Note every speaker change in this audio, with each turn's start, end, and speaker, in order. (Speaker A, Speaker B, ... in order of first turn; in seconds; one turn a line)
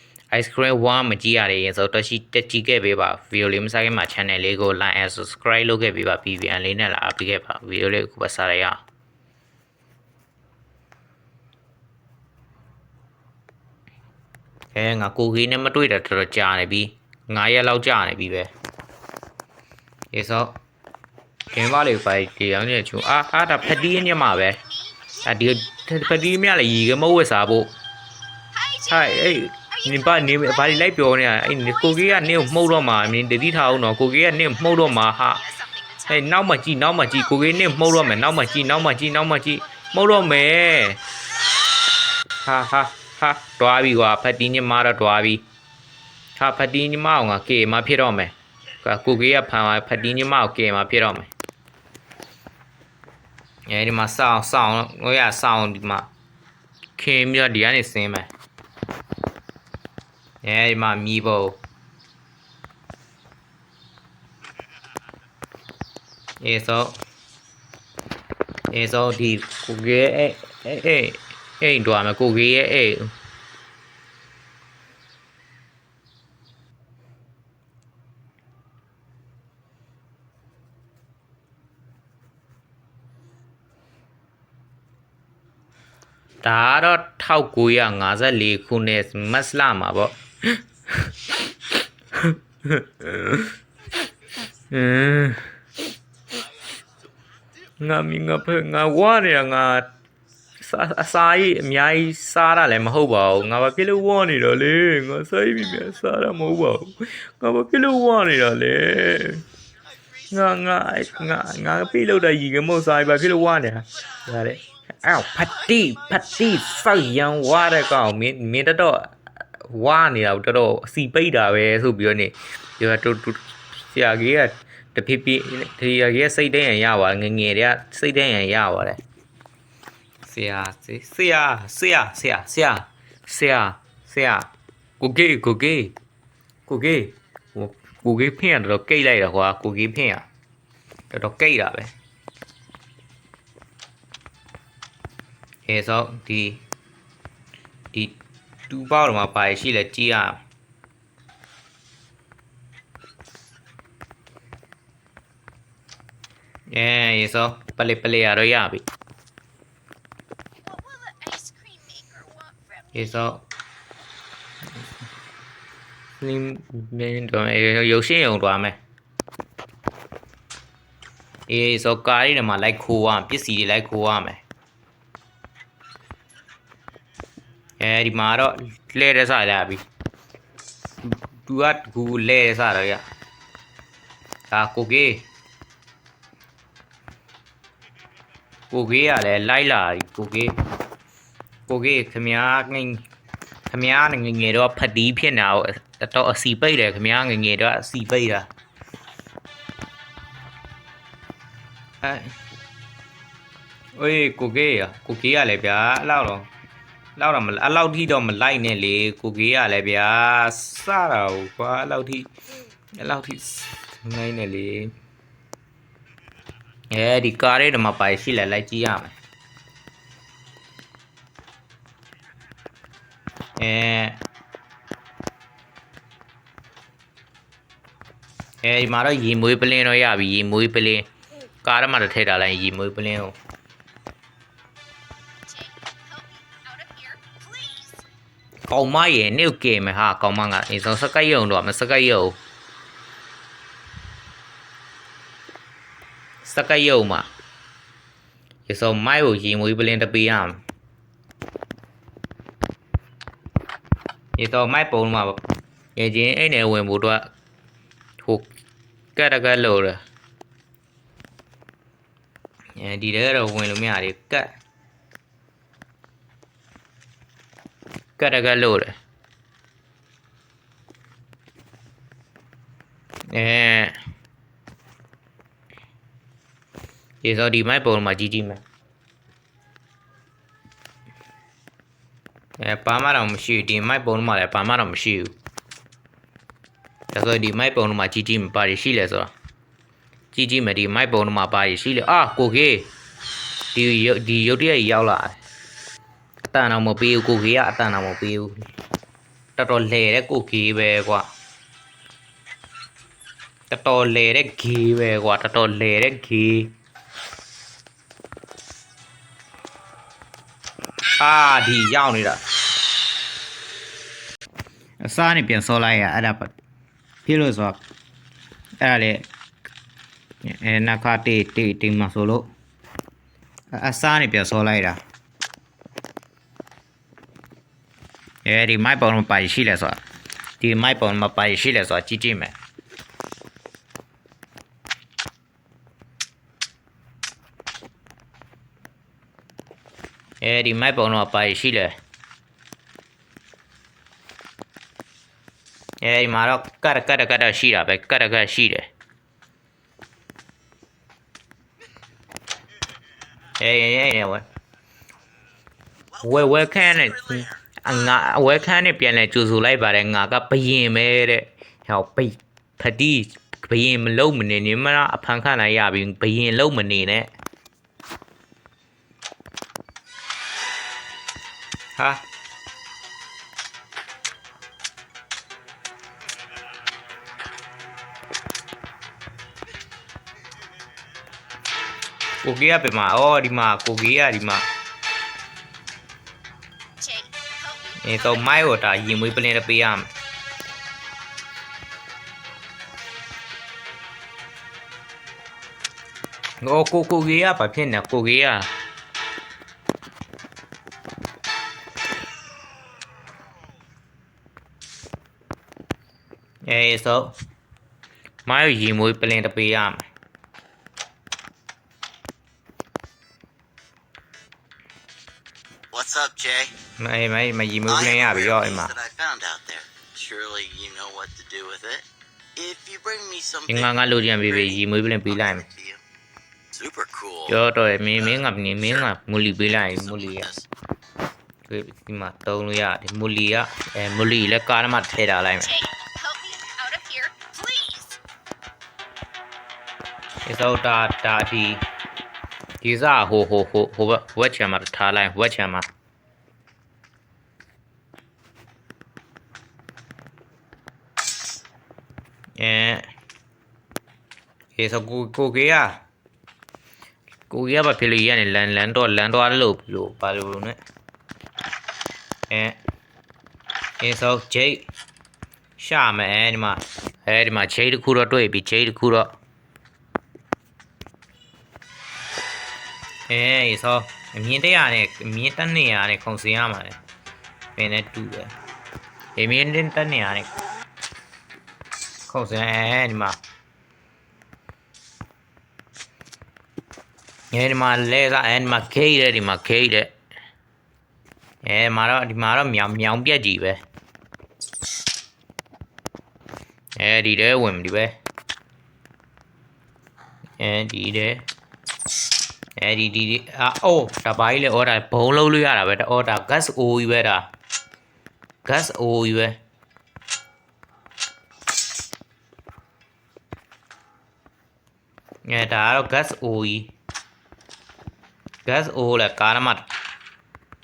Speaker A: 0.3-8.8
Speaker A: 14.7-18.5
Speaker A: 20.1-20.6
Speaker A: 21.5-24.6
Speaker B: 24.4-25.9
Speaker A: 25.2-27.7
Speaker B: 28.5-33.8
Speaker A: 28.9-35.4
Speaker B: 34.5-36.5
Speaker A: 36.1-41.0
Speaker B: 37.0-40.4
Speaker A: 42.4-45.4
Speaker A: 46.4-51.3
Speaker A: 53.7-56.1
Speaker A: 57.0-58.3
Speaker A: 60.4-61.6
Speaker A: 66.4-67.0
Speaker A: 68.7-73.1
Speaker A: 86.4-91.1
Speaker A: 92.1-93.5
Speaker A: 94.7-95.5
Speaker A: 97.8-99.9
Speaker A: 100.6-109.4
Speaker A: 110.3-129.0
Speaker A: 130.2-134.5
Speaker A: 135.0-135.9
Speaker A: 136.7-140.3
Speaker A: 141.1-141.9
Speaker A: 145.7-146.6
Speaker A: 148.7-150.4
Speaker A: 156.7-158.8
Speaker B: 160.6-163.3
Speaker A: 162.9-163.4
Speaker A: 166.2-168.8
Speaker A: 171.5-174.4
Speaker A: 177.8-179.8
Speaker A: 181.0-183.0
Speaker A: 184.5-185.2
Speaker A: 188.7-190.6
Speaker A: 191.7-193.0
Speaker A: 193.7-198.5
Speaker A: 202.0-202.4
Speaker A: 204.0-206.5
Speaker A: 207.2-212.3
Speaker A: 213.0-214.9
Speaker A: 216.9-219.1
Speaker A: 223.6-224.2
Speaker A: 228.6-231.1
Speaker A: 231.6-233.3
Speaker B: 235.4-238.0
Speaker A: 238.7-242.4
Speaker A: 246.4-247.3
Speaker A: 248.7-250.6
Speaker A: 254.4-255.4
Speaker A: 255.9-257.3
Speaker A: 258.2-258.5
Speaker A: 259.1-260.0
Speaker A: 262.8-264.5
Speaker A: 268.2-268.9
Speaker A: 273.3-274.0
Speaker A: 277.2-278.6
Speaker A: 282.6-285.3
Speaker A: 287.1-289.3
Speaker A: 290.3-292.9
Speaker A: 293.7-295.4
Speaker A: 296.4-298.5
Speaker A: 299.6-301.3
Speaker A: 303.7-306.7
Speaker A: 311.2-312.4
Speaker A: 315.0-316.5
Speaker A: 317.2-317.8
Speaker A: 318.8-319.3
Speaker A: 320.4-322.5
Speaker A: 323.7-325.0
Speaker A: 328.4-330.0
Speaker A: 330.6-332.6
Speaker A: 340.4-341.9
Speaker A: 346.0-348.9
Speaker A: 353.6-354.4
Speaker A: 356.2-367.3
Speaker A: 371.9-372.2
Speaker A: 382.4-384.6
Speaker B: 387.0-388.6
Speaker A: 388.0-390.1
Speaker A: 396.6-398.7
Speaker A: 406.7-407.3
Speaker A: 408.4-410.0
Speaker C: 415.9-416.7
Speaker A: 417.0-418.9
Speaker C: 417.9-424.0
Speaker A: 423.7-425.6
Speaker C: 425.3-426.0
Speaker C: 426.7-427.5
Speaker A: 427.5-430.5
Speaker C: 430.1-430.7
Speaker A: 431.6-435.7
Speaker B: 435.6-438.2
Speaker A: 440.4-441.8
Speaker A: 442.8-445.9
Speaker A: 452.6-453.1
Speaker A: 454.8-455.9
Speaker A: 457.5-460.8
Speaker A: 462.5-462.8
Speaker A: 464.0-464.8
Speaker A: 465.8-469.3
Speaker A: 473.3-477.0
Speaker A: 477.8-478.5
Speaker A: 479.4-480.5
Speaker A: 482.3-483.4
Speaker A: 487.5-490.1
Speaker A: 491.6-493.8
Speaker A: 497.0-498.1
Speaker A: 500.6-501.5
Speaker A: 502.8-507.5
Speaker A: 508.6-509.6
Speaker A: 515.5-516.9
Speaker A: 518.6-519.9